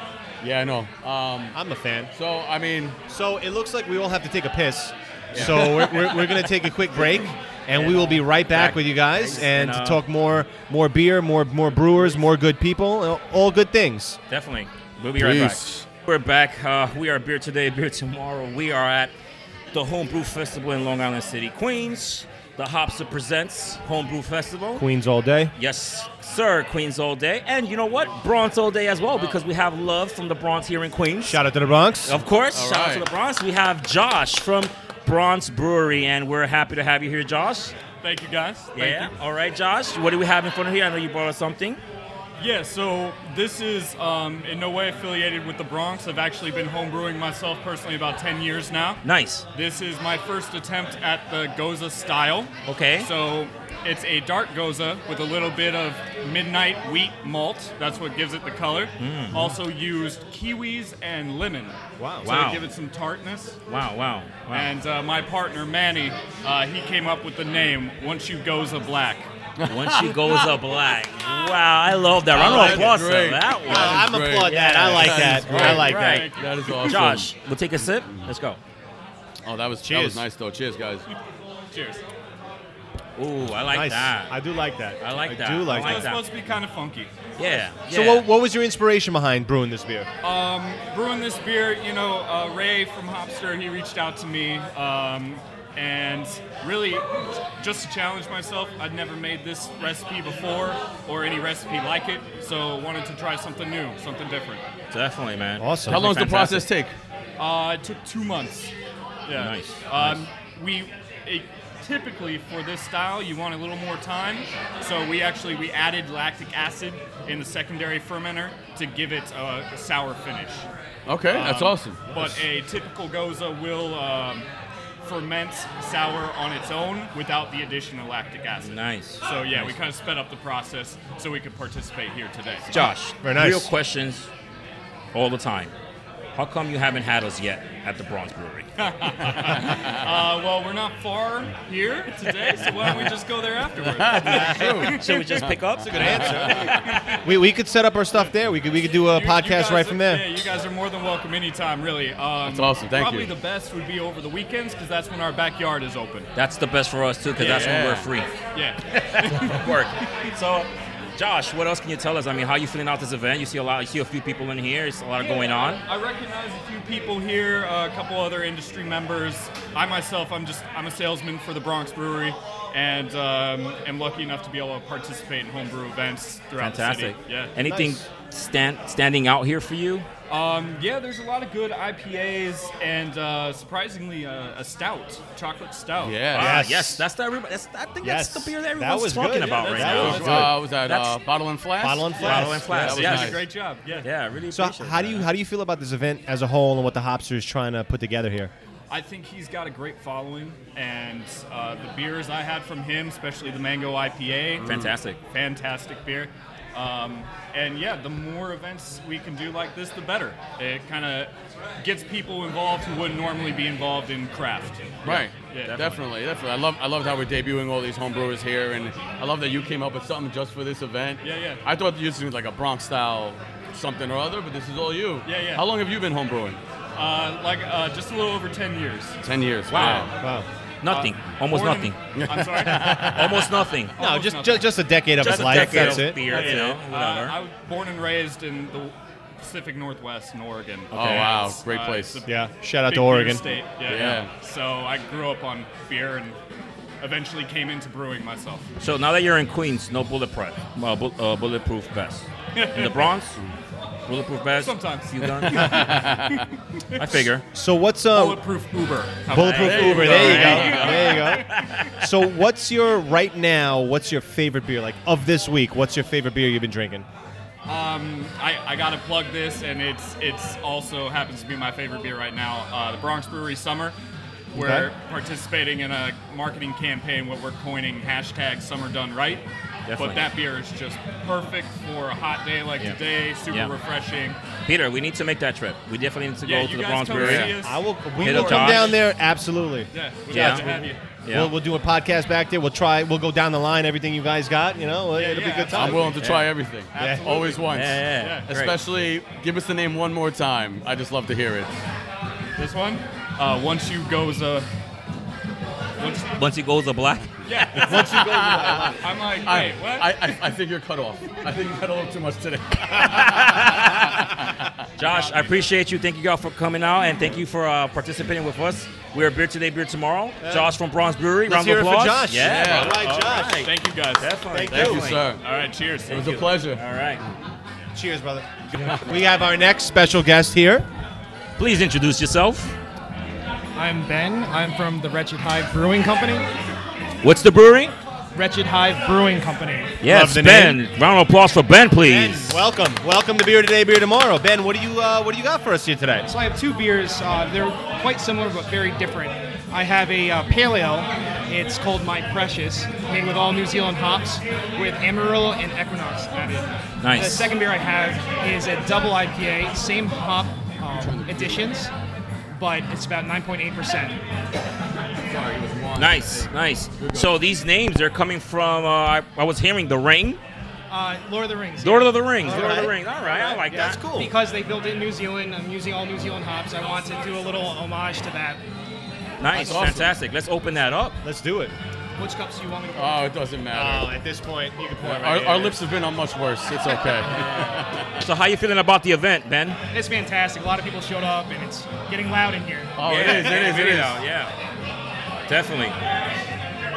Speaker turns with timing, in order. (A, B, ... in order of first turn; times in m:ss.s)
0:00.4-0:01.6 A
0:01.5-0:02.1 B
0:02.1-0:03.0 A
0:03.1-0:14.2 B
0:05.3-0:06.2 A
0:05.4-0:05.8 C
0:07.7-0:10.0 C
0:14.3-0:19.1 C
0:15.2-0:15.8 A
0:19.7-0:24.8 C
0:24.8-0:25.5 B
0:25.6-0:31.4 C
0:31.2-0:32.2 B
0:32.0-0:37.7 C
0:32.4-0:33.1 A
0:38.0-0:39.1 D
0:38.7-0:41.8 C
0:42.4-0:49.0 D
0:49.0-0:49.4 C
0:49.5-1:03.6 D
0:52.7-0:53.1 C
0:59.0-0:59.4 C
1:02.0-1:02.3 B
1:02.2-1:02.6 C
1:03.7-1:04.7 C
1:04.5-1:09.3 D
1:09.6-1:10.5 A
1:09.7-1:18.6 C
1:12.3-1:17.3 A
1:12.4-1:12.9 B
1:13.6-1:16.3 B
1:15.6-1:17.0 D
1:17.8-1:18.3 A
1:19.4-1:21.0 A
1:19.8-1:20.2 B
1:21.7-1:22.0 D
1:23.2-1:24.3 C
1:23.7-1:26.1 B
1:25.0-1:26.2 C
1:25.7-1:27.1 D
1:27.4-1:28.3 C
1:27.8-1:30.1 B
1:30.2-1:44.6 D
1:44.9-1:46.6 C
1:45.6-1:46.1 B
1:45.9-1:46.9 A
1:47.4-1:48.7 D
1:49.2-2:00.7 D
1:49.4-1:50.1 C
2:01.1-2:02.4 A
2:01.3-2:04.4 D
2:05.0-2:12.7 D
2:08.6-2:09.7 C
2:12.7-2:14.3 C
2:12.7-2:13.7 B
2:15.1-2:15.7 C
2:16.3-2:18.7 C
2:18.8-2:25.0 D
2:22.8-2:23.1 A
2:23.8-2:26.8 A
2:24.3-2:26.9 C
2:25.9-2:30.3 B
2:26.7-2:27.2 D
2:29.0-2:36.3 D
2:32.4-2:33.3 A
2:36.3-2:38.3 C
2:37.3-2:38.1 A
2:38.5-2:39.7 D
2:39.1-2:45.8 C
2:45.2-2:57.5 D
2:56.6-3:00.1 C
2:57.6-2:58.0 B
3:00.3-3:06.3 D
3:06.0-3:06.6 A
3:06.3-3:11.2 C
3:06.4-3:07.0 B
3:08.0-3:10.6 B
3:09.3-3:10.4 D
3:09.9-3:13.4 A
3:11.8-3:13.1 B
3:12.2-3:13.4 C
3:12.2-3:14.1 D
3:14.0-3:15.3 C
3:14.5-3:18.5 B
3:18.9-3:24.7 D
3:24.6-3:24.9 A
3:24.6-3:25.2 C
3:25.3-3:35.9 D
3:35.0-3:46.6 A
3:35.0-3:36.0 C
3:41.2-3:41.6 D
3:45.2-3:45.6 D
3:47.0-3:49.2 D
3:49.2-3:50.1 A
3:49.7-3:50.1 C
3:50.2-3:50.4 B
3:50.8-3:52.0 C
3:50.9-3:53.0 D
3:52.1-3:53.3 A
3:52.7-3:53.4 B
3:52.9-3:53.9 C
3:53.9-4:06.4 D
3:54.0-3:56.6 B
3:55.2-3:57.4 C
4:00.9-4:01.4 C
4:00.9-4:02.2 A
4:02.2-4:03.5 B
4:03.8-4:04.3 A
4:07.0-4:08.6 D
4:08.8-4:13.4 C
4:12.5-4:13.1 D
4:14.1-4:15.9 C
4:14.6-4:17.2 D
4:15.6-4:16.4 A
4:17.0-4:17.4 C
4:17.5-4:18.4 B
4:18.1-4:21.9 D
4:19.3-4:27.0 B
4:19.3-4:21.8 C
4:19.6-4:21.0 A
4:27.6-4:34.0 D
4:34.5-4:34.9 B
4:34.5-4:39.4 D
4:39.8-4:40.2 C
4:40.0-4:44.4 D
4:42.8-4:43.7 C
4:44.6-4:47.6 C
4:46.4-4:49.0 D
4:47.1-4:47.5 A
4:47.2-4:56.2 B
4:48.2-4:49.0 C
4:49.9-4:51.0 D
4:50.3-4:50.7 C
4:51.2-4:51.5 C
4:55.1-4:56.2 D
4:55.7-5:01.7 A
4:56.2-4:56.5 C
4:56.9-4:57.6 D
4:57.0-4:57.3 B
4:57.7-4:58.7 C
4:58.2-4:58.5 D
5:02.6-5:04.7 D
5:06.0-5:06.3 D
5:06.4-5:07.3 C
5:07.4-5:10.4 D
5:07.9-5:13.7 A
5:07.9-5:08.9 B
5:13.0-5:14.0 C
5:15.0-5:25.3 C
5:15.0-5:15.6 D
5:20.4-5:20.7 B
5:21.4-5:23.7 B
5:22.4-5:23.0 A
5:22.9-5:24.4 D
5:24.5-5:25.2 B
5:24.7-5:25.4 A
5:25.3-5:26.3 D
5:26.1-5:27.2 C
5:26.1-5:26.8 A
5:27.9-5:30.9 B
5:31.6-5:32.7 C
5:33.7-5:36.5 E
5:37.2-5:37.9 C
5:38.3-5:40.0 E
5:40.0-5:42.6 C
5:40.0-5:40.8 B
5:42.0-5:46.3 B
5:46.3-6:01.9 E
5:57.0-5:57.5 C
6:01.0-6:01.7 A
6:02.5-6:04.2 E
6:05.3-6:07.3 A
6:06.0-6:10.4 C
6:10.9-6:12.2 E
6:11.8-6:14.2 C
6:12.4-6:12.9 B
6:13.3-6:18.6 E
6:13.7-6:14.3 B
6:19.4-6:21.2 C
6:19.5-6:19.9 B
6:19.5-6:20.1 A
6:21.2-6:21.7 B
6:22.2-6:23.3 E
6:22.9-6:24.1 A
6:23.7-6:25.8 B
6:25.0-6:28.1 A
6:27.3-6:29.8 C
6:29.9-6:32.9 E
6:33.0-6:34.2 A
6:33.0-6:34.5 C
6:35.5-6:36.0 C